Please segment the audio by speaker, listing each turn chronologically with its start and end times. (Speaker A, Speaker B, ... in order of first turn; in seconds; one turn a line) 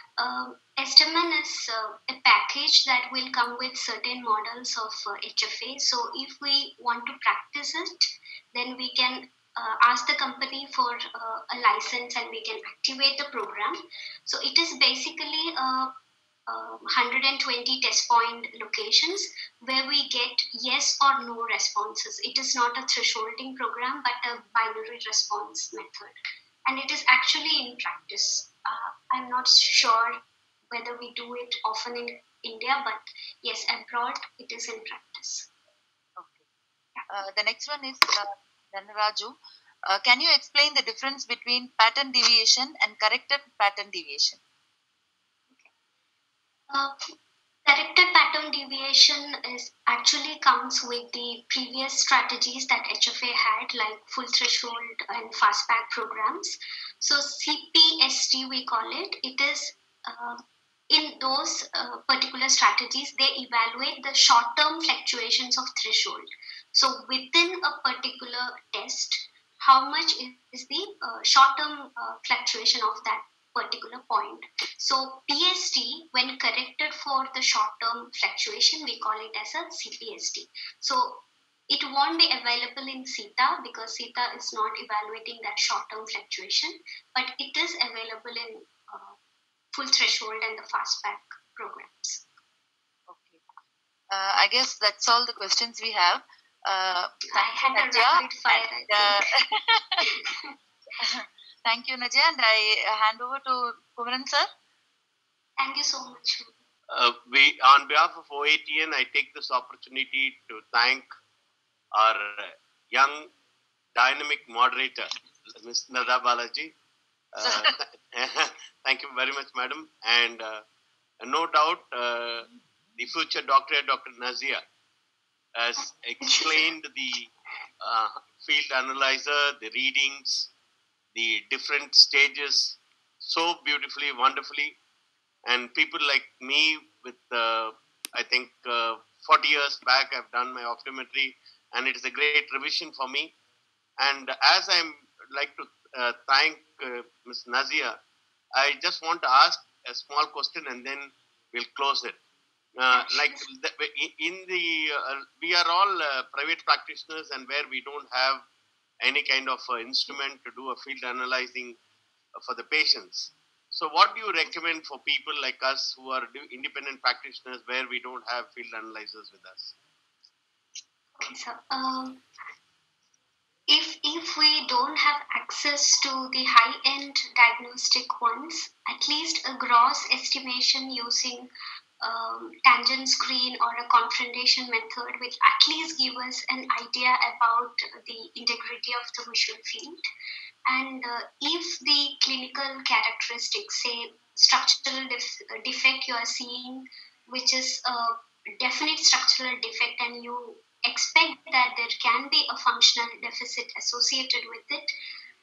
Speaker A: 0.2-15.9
Speaker A: 16.5-26.1
Speaker A: 26.7-35.5
Speaker B: 36.2-36.4
Speaker B: 37.1-39.3
Speaker B: 39.9-44.4
Speaker A: 46.7-47.1
Speaker A: 47.7-89.2
Speaker A: 89.7-92.3
Speaker B: 93.1-93.4
Speaker B: 94.1-100.2
Speaker A: 97.3-99.4
Speaker A: 100.0-100.5
Speaker B: 101.0-104.5
Speaker A: 105.6-106.5
Speaker C: 106.9-111.1
Speaker C: 111.9-113.3
Speaker C: 114.0-116.7
Speaker C: 117.3-120.6
Speaker B: 117.4-117.7
Speaker C: 121.2-124.6
Speaker C: 125.5-127.3
Speaker A: 126.2-126.7
Speaker C: 127.8-130.5
Speaker C: 131.1-134.8
Speaker C: 135.4-143.3
Speaker C: 144.0-148.0
Speaker C: 148.6-152.2
Speaker C: 152.8-158.5
Speaker A: 152.9-153.5
Speaker C: 159.0-161.8
Speaker C: 162.3-169.8
Speaker A: 171.2-172.2
Speaker A: 173.7-181.5
Speaker A: 182.0-190.0
Speaker A: 190.7-204.9